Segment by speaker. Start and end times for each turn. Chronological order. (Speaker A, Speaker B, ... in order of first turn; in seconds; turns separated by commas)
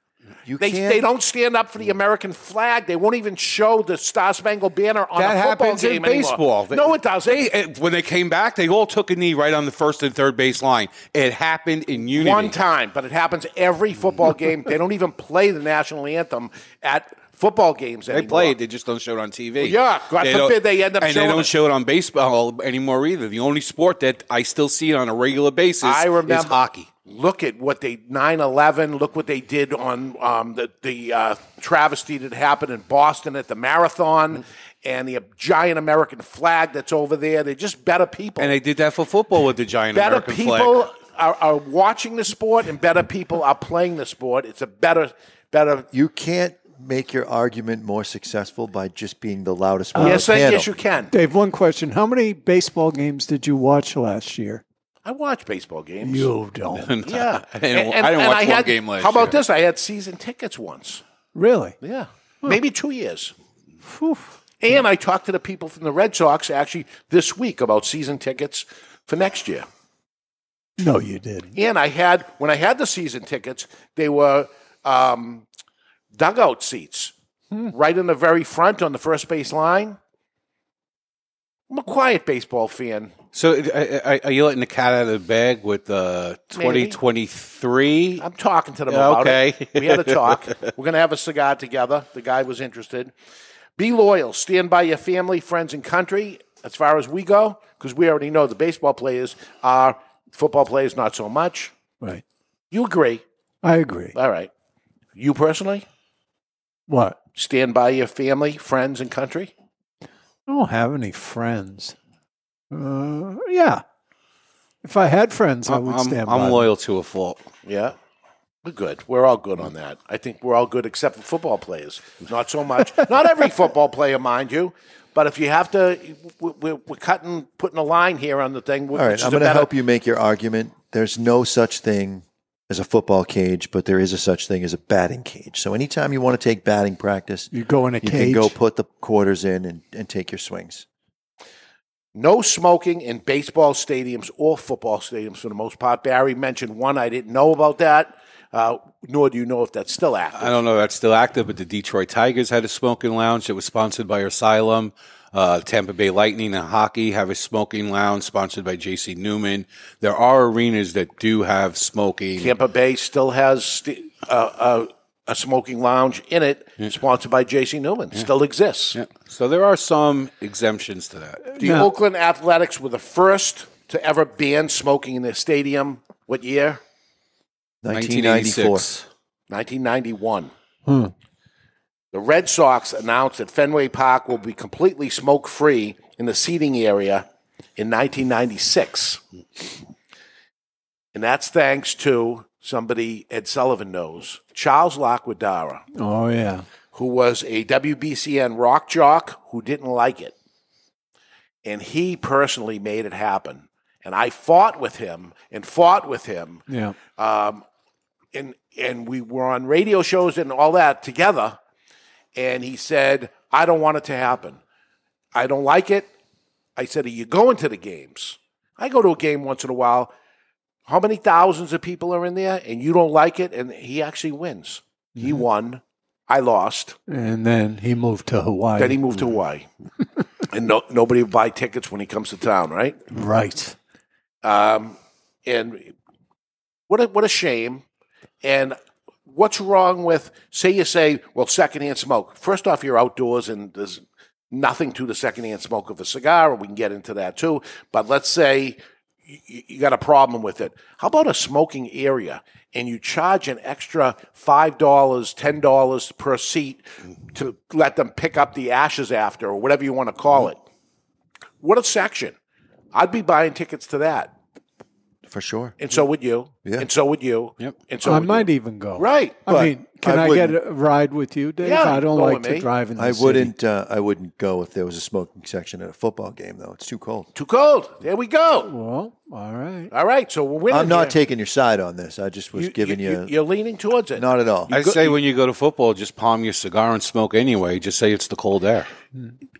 Speaker A: 0.4-1.0, Speaker B: 0.6-7.4, Speaker C: 5.2-12.5, Speaker B: 12.1-18.5, Speaker C: 18.1-26.9, Speaker B: 19.6-21.5, Speaker B: 25.8-38.5, Speaker C: 38.4-40.9, Speaker B: 39.9-45.9, Speaker A: 45.9-50.7, Speaker D: 49.9-50.2, Speaker B: 50.0-51.1, Speaker D: 51.1-54.6, Speaker B: 55.0-56.3, Speaker D: 56.0-57.0, Speaker C: 56.7-59.4, Speaker B: 57.0-61.0, Speaker D: 61.3-61.8, Speaker B: 61.8-63.3, Speaker D: 63.9-64.3, Speaker B: 64.6-69.7, Speaker D: 70.8-71.5, Speaker B: 71.5-75.4, Speaker B: 76.1-77.1, Speaker B: 77.7-80.0, Speaker B: 81.7-83.1, Speaker C: 83.3-88.2, Speaker B: 86.5-87.0, Speaker B: 88.2-93.1, Speaker C: 88.9-90.5, Speaker B: 93.8-101.7, Speaker B: 102.7-103.2, Speaker D: 103.6-104.1, Speaker B: 104.1-104.5, Speaker B: 105.2-105.8, Speaker D: 106.9-107.2, Speaker B: 107.3-109.5, Speaker D: 110.5-111.9, Speaker D: 112.7-113.8, Speaker D: 114.8-116.7, Speaker C: 115.7-117.4, Speaker B: 117.7-117.9, Speaker B: 118.6-129.7, Speaker A: 128.9-137.5, Speaker D: 137.5-138.5, Speaker A: 138.0-140.8, Speaker B: 142.1-150.6, Speaker C: 150.3-162.5, Speaker B: 162.4-169.0, Speaker C: 168.9-171.5, Speaker D: 171.5-171.9, Speaker B: 171.6-176.8, Speaker A: 177.8-178.9, Speaker C: 177.9-179.0, Speaker B: 179.5-180.5, Speaker D: 180.8-181.1, Speaker B: 182.1-187.2, Speaker B: 187.8-189.2, Speaker B: 191.1-195.8, Speaker D: 195.9-196.6, Speaker B: 196.9-200.3, Speaker B: 201.6-207.6, Speaker D: 206.7-207.0, Speaker B: 208.3-211.6, Speaker B: 212.3-214.6, Speaker B: 215.3-216.1, Speaker B: 216.8-220.1, Speaker B: 220.9-227.0, Speaker D: 227.1-229.0, Speaker B: 228.8-229.7, Speaker B: 230.5-233.1, Speaker D: 233.1-233.8, Speaker B: 234.4-235.9, Speaker B: 236.9-237.8, Speaker B: 238.4-238.8, Speaker B: 239.3-260.6, Speaker B: 261.6-262.3, Speaker B: 262.9-264.3, Speaker A: 265.3-265.8, Speaker B: 265.8-269.4, Speaker D: 268.0-273.5, Speaker A: 269.5-270.5, Speaker B: 271.6-272.7, Speaker A: 272.9-277.3, Speaker B: 277.3-278.7, Speaker D: 278.6-279.9, Speaker B: 279.9-281.1, Speaker A: 280.7-283.3, Speaker B: 282.5-285.2, Speaker A: 284.1-284.7, Speaker C: 284.7-288.9